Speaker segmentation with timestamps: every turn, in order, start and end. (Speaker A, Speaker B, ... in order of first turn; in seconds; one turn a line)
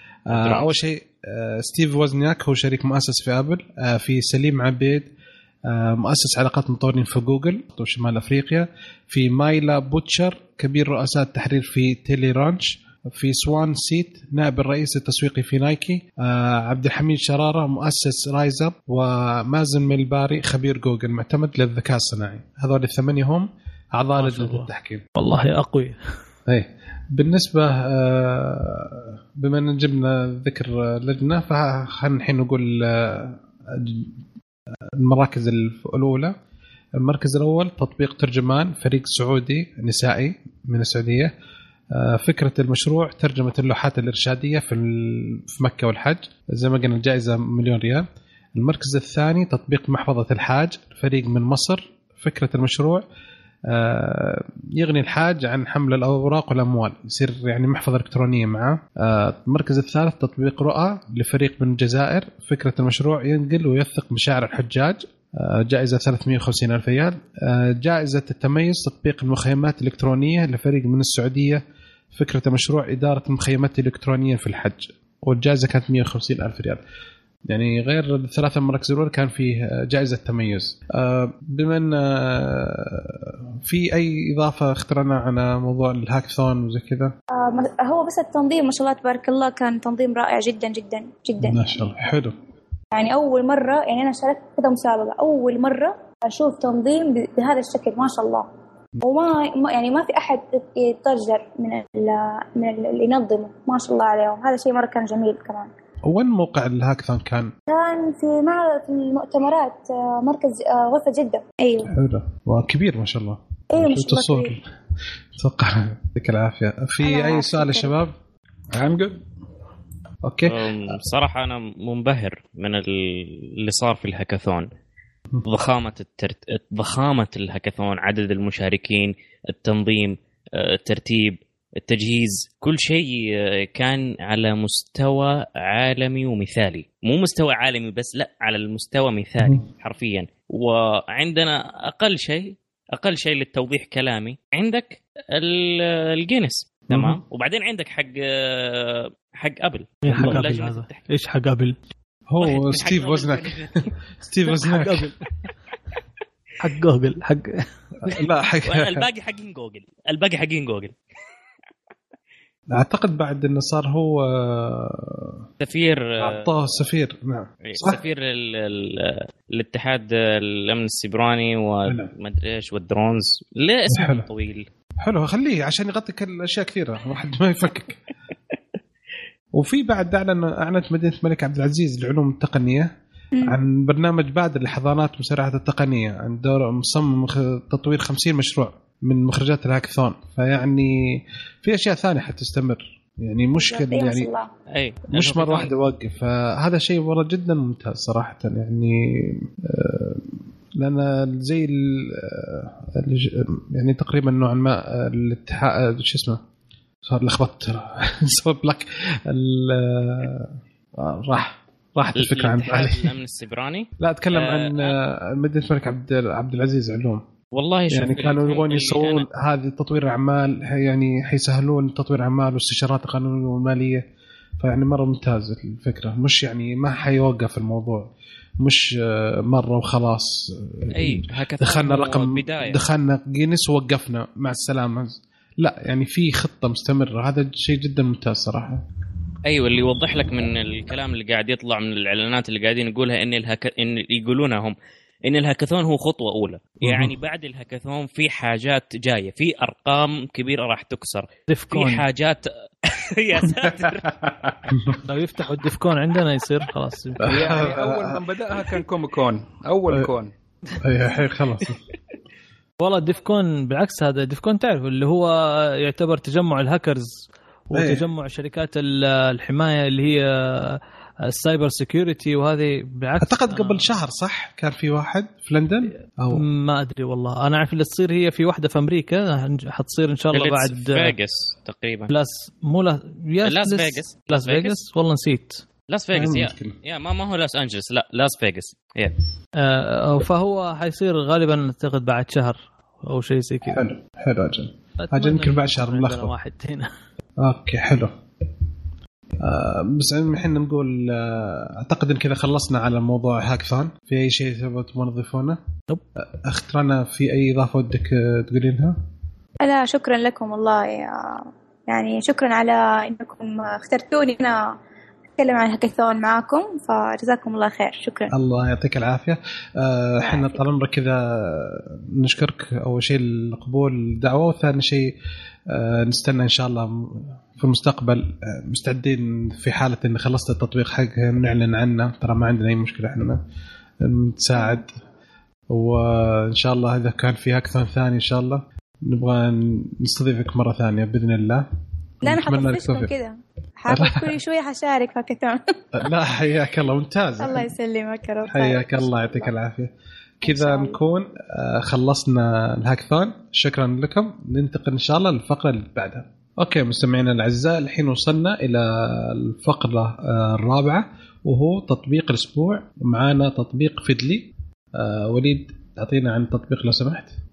Speaker A: 0.3-5.1
Speaker B: 0.3-0.8
Speaker A: 5.7-25.1
Speaker C: 24.2-26.0
Speaker A: 26.5-34.1
Speaker A: 35.0-36.4
Speaker A: 37.0-41.3
Speaker A: 41.9-53.0
Speaker A: 53.7-71.6
Speaker A: 72.2-76.8
Speaker A: 77.5-87.1
Speaker D: 87.3-91.6
Speaker A: 91.4-92.4
Speaker D: 92.9-98.5
Speaker D: 99.0-105.7
Speaker A: 106.1-107.5
Speaker D: 107.7-111.9
Speaker A: 111.9-114.6
Speaker D: 113.7-114.6
Speaker A: 115.3-118.2
Speaker D: 117.0-118.0
Speaker E: 118.7-119.2
Speaker A: 120.2-121.0
Speaker B: 120.5-124.7
Speaker B: 125.5-151.1
Speaker A: 146.9-147.2
Speaker C: 150.0-151.8
Speaker A: 150.2-150.4
Speaker A: 152.3-155.1
Speaker B: 152.4-153.9
Speaker C: 154.6-155.2
Speaker C: 156.6-158.1
Speaker A: 158.0-159.1
Speaker B: 158.7-161.0
Speaker A: 162.7-165.4
Speaker B: 165.6-166.5
Speaker A: 166.2-168.0
Speaker B: 167.7-174.7
Speaker A: 171.9-172.1
Speaker A: 173.9-174.3
Speaker A: 175.0-178.0
Speaker A: 179.5-182.9
Speaker A: 183.4-194.3
Speaker D: 193.6-194.5
Speaker B: 194.7-195.7
Speaker A: 195.1-206.4
Speaker A: 207.1-213.1
Speaker B: 212.2-215.0
Speaker A: 214.0-217.2
Speaker B: 217.5-219.2
Speaker A: 217.9-224.1
Speaker A: 224.6-228.1
Speaker A: 228.6-238.8
Speaker B: 230.9-232.8
Speaker B: 239.5-254.1
Speaker A: 246.8-247.1
Speaker C: 251.5-252.0
Speaker E: 253.9-254.6
Speaker A: 254.7-255.0
Speaker C: 255.0-257.5
Speaker A: 257.2-258.7
Speaker E: 257.2-260.3
Speaker A: 260.8-261.8
Speaker C: 262.8-273.9
Speaker A: 267.8-268.1
Speaker A: 273.2-276.4
Speaker C: 276.3-281.1
Speaker B: 280.3-282.1
Speaker C: 282.1-285.6
Speaker B: 283.4-284.8
Speaker B: 285.9-289.2
Speaker A: 286.1-286.8
Speaker C: 289.6-293.8
Speaker A: 293.6-296.3
Speaker C: 295.0-296.9
Speaker A: 297.4-298.7
Speaker A: 299.4-305.6
Speaker A: 306.2-309.1
Speaker D: 309.6-314.8
Speaker D: 315.4-318.3
Speaker A: 318.3-325.1
Speaker D: 320.2-320.6
Speaker A: 325.7-333.4
Speaker A: 334.0-335.0
Speaker D: 334.6-334.8
Speaker A: 335.7-341.7
Speaker A: 342.2-343.1
Speaker D: 342.2-345.8
Speaker A: 343.9-344.4
Speaker A: 345.9-347.7
Speaker D: 347.4-349.5
Speaker A: 348.4-367.4
Speaker D: 350.4-351.0